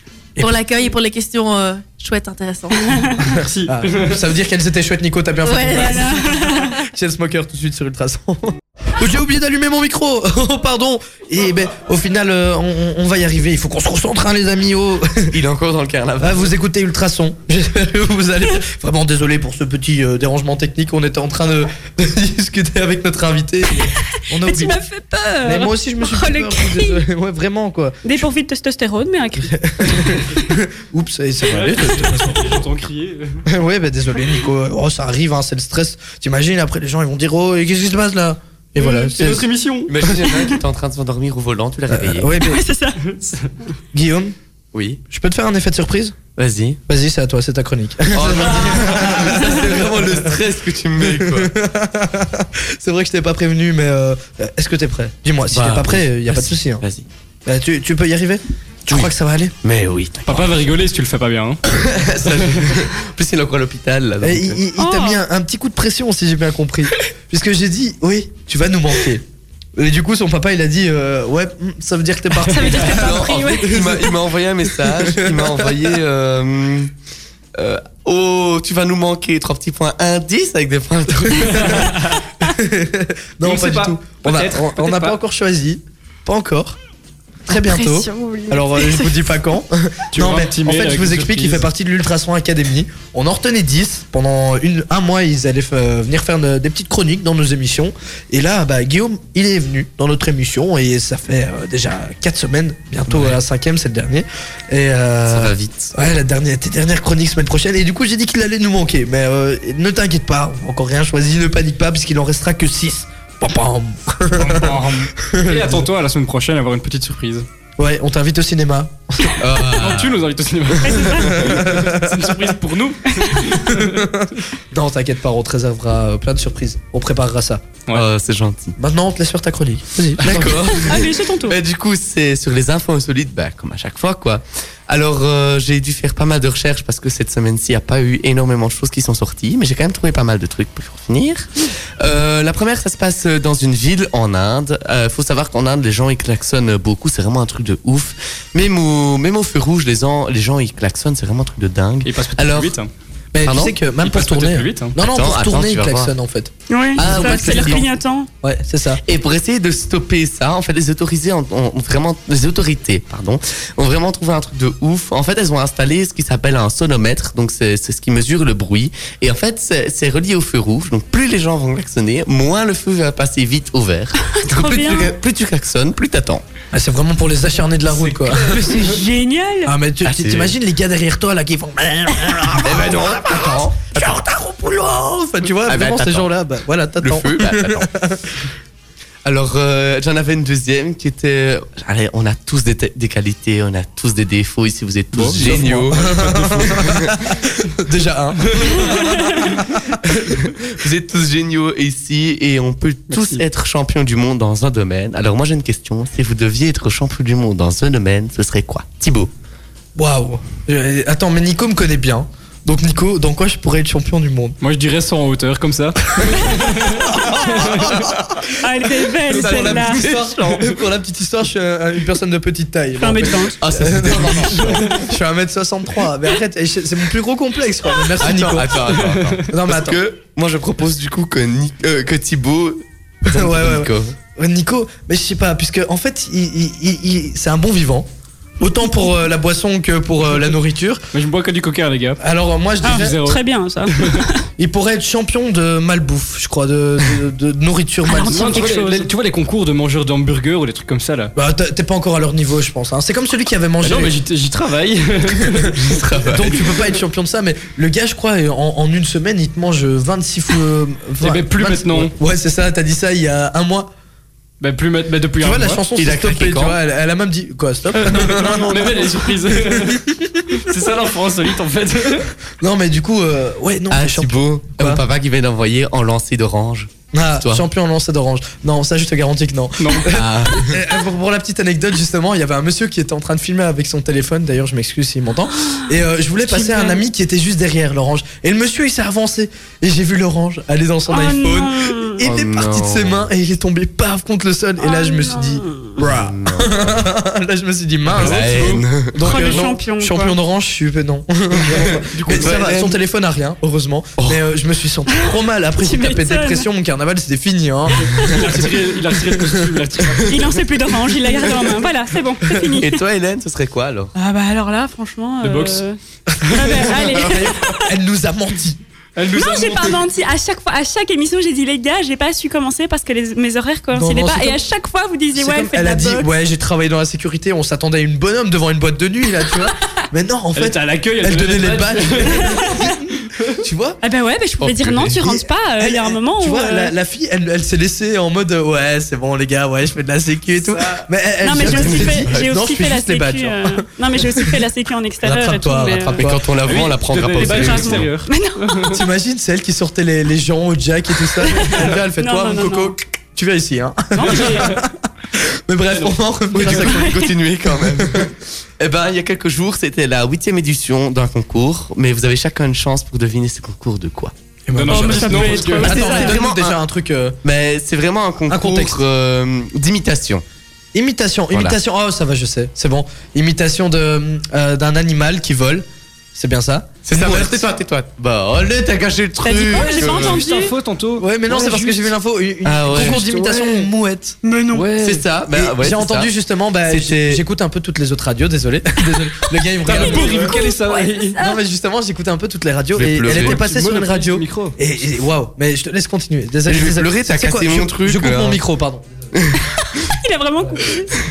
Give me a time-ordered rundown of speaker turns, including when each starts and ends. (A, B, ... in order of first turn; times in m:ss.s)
0:00.4-0:03.1 A
0:02.9-0:03.2 B
0:03.2-0:15.3 C
0:03.3-0:04.2 D
0:05.4-0:06.2 A
0:05.7-0:06.8 B
0:15.3-0:16.5 E
0:16.2-0:24.8 C
0:24.3-0:27.0 B
0:25.4-0:28.2 C
0:28.0-0:30.2 B
0:29.5-0:32.4 C
0:31.4-0:33.4 D
0:33.5-0:39.5 C
0:38.8-0:40.0 D
0:39.9-0:42.3 E
0:41.9-0:42.6 C
0:42.4-0:43.0 B
0:43.2-0:43.5 D
0:43.9-0:44.4 C
0:44.7-0:45.0 E
0:45.1-0:46.2 C
0:46.4-0:46.8 E
0:46.9-0:50.3 C
0:48.1-0:51.5 E
0:51.0-0:56.8 C
0:55.5-0:57.1 E
0:57.5-0:59.5 C
0:58.9-1:00.6 E
1:00.3-1:01.6 D
1:01.7-1:04.6 E
1:02.3-1:02.7 D
1:04.2-1:09.2 C
1:04.8-1:05.2 B
1:09.8-1:14.1 C
1:12.4-1:14.1 B
1:12.9-1:16.9 E
1:14.8-1:15.8 C
1:17.6-1:21.8 E
1:21.4-1:26.8 C
1:21.4-1:22.2 D
1:23.4-1:25.2 D
1:27.5-1:55.9 C
1:27.6-1:29.3 B
1:30.1-1:31.7 D
1:43.1-1:43.4 E
1:45.3-1:45.9 E
1:54.3-1:57.5 D
1:57.8-2:00.0 C
1:59.4-2:00.2 E
1:59.8-2:04.1 D
2:00.8-2:01.4 B
2:01.4-2:02.2 C
2:03.2-2:03.4 B
2:03.6-2:07.6 C
2:07.9-2:08.8 E
2:08.8-2:10.8 C
2:10.2-2:32.8 E
2:10.7-2:11.6 B
2:32.0-2:32.9 D
2:33.3-2:37.9 C
2:33.4-2:33.8 E
2:34.0-2:35.0 D
2:35.0-2:36.1 E
2:36.7-2:38.3 B
2:37.0-2:37.9 E
2:38.4-2:39.0 C
2:39.0-2:56.4 E
2:54.2-2:55.2 B
2:56.7-2:58.9 C
2:58.3-2:59.7 B
2:59.7-3:08.3 C
3:00.0-3:00.6 E
3:02.6-3:04.2 E
3:05.7-3:06.3 E
3:07.0-3:07.9 E
3:09.2-3:17.2 E
3:15.1-3:16.9 D
3:15.4-3:20.4 C
3:20.1-3:29.3 E
3:23.1-3:23.4 D
3:30.0-3:34.6 C
3:34.6-3:38.0 D
3:37.0-3:38.5 C
3:38.6-3:40.0 B
3:39.2-3:48.8 C
3:39.4-3:40.5 E
3:43.0-3:43.6 B
3:43.6-3:45.0 E
3:48.2-3:54.2 E
3:48.9-3:49.4 D
3:49.5-3:50.0 C
3:53.3-3:58.1 C
3:58.6-4:01.0 C
4:01.1-4:02.2 D
4:02.2-4:03.2 C
4:02.8-4:04.5 B
4:02.8-4:03.4 D
4:04.0-4:04.2 D
4:04.6-4:08.7 C
4:08.0-4:09.1 B
4:08.2-4:11.3 D
4:11.3-4:14.2 C
4:13.8-4:16.0 D
4:15.8-4:16.7 E
4:16.2-4:23.9 C
4:21.2-4:22.1 D
4:24.6-4:25.8 D
4:25.4-4:30.6 C
4:26.0-4:26.8 E
4:28.0-4:32.3 D
4:32.6-4:35.0 C
4:33.9-4:37.6 E
4:37.1-5:08.7 C
4:39.8-4:40.1 D
4:40.1-4:40.8 E
4:46.4-4:47.0 B
4:51.1-4:52.2 B
4:52.2-4:53.3 E
4:54.8-4:55.9 B
4:56.0-4:57.0 E
4:58.1-4:59.5 E
4:58.2-4:58.9 D
4:59.2-5:00.4 B
5:01.7-5:03.0 E
5:02.2-5:02.6 D
5:04.2-5:04.4 E
5:05.1-5:06.7 B
5:08.1-5:10.6 D
5:10.2-5:13.0 B
5:11.4-5:11.7 E
5:12.6-5:14.1 E
5:14.2-5:16.0 B
5:15.4-5:15.8 D
5:16.3-5:18.8 C
5:16.5-5:17.9 B
5:19.2-5:20.0 D
5:19.3-5:26.3 B
5:23.9-5:24.6 C
5:25.4-5:34.0 C
5:30.6-5:33.5 D
5:32.3-5:32.8 B
5:34.0-5:36.9 B
5:34.6-5:35.2 E
5:35.1-5:44.6 C
5:40.6-5:41.0 D
5:41.4-5:46.2 B
5:41.6-5:42.5 E
5:45.2-5:46.5 C
5:46.1-5:48.1 E
5:46.6-5:49.0 D
5:47.4-5:48.9 B
5:48.9-5:57.3 C
5:51.4-5:53.0 B
5:54.1-5:54.8 B
5:54.2-5:54.8 D
5:55.9-5:56.9 D
5:56.5-6:04.3 E
5:56.9-5:57.3 B
5:58.0-5:58.3 C
6:04.7-6:07.4 C
6:04.7-6:06.2 D
6:04.9-6:06.4 B
6:05.7-6:06.8 E
6:07.4-6:10.4 E
6:08.5-6:09.0 C
6:10.9-6:17.7 C
6:17.0-6:20.5 E
6:19.4-6:20.7 B
6:19.7-6:22.1 D
6:21.2-6:24.4 C
6:22.6-6:23.4 E
6:22.9-6:23.8 D
6:24.4-6:24.9 B
6:24.7-6:25.3 D
6:25.0-6:26.3 E
6:25.5-6:30.6 C
6:26.9-6:27.4 E
6:29.8-6:31.4 D
6:29.9-6:31.6 B
6:31.4-6:39.0 C
6:33.0-6:33.6 E
6:33.3-6:34.8 D
6:36.7-6:38.6 E
6:39.3-6:39.6 E
6:40.0-6:41.2 B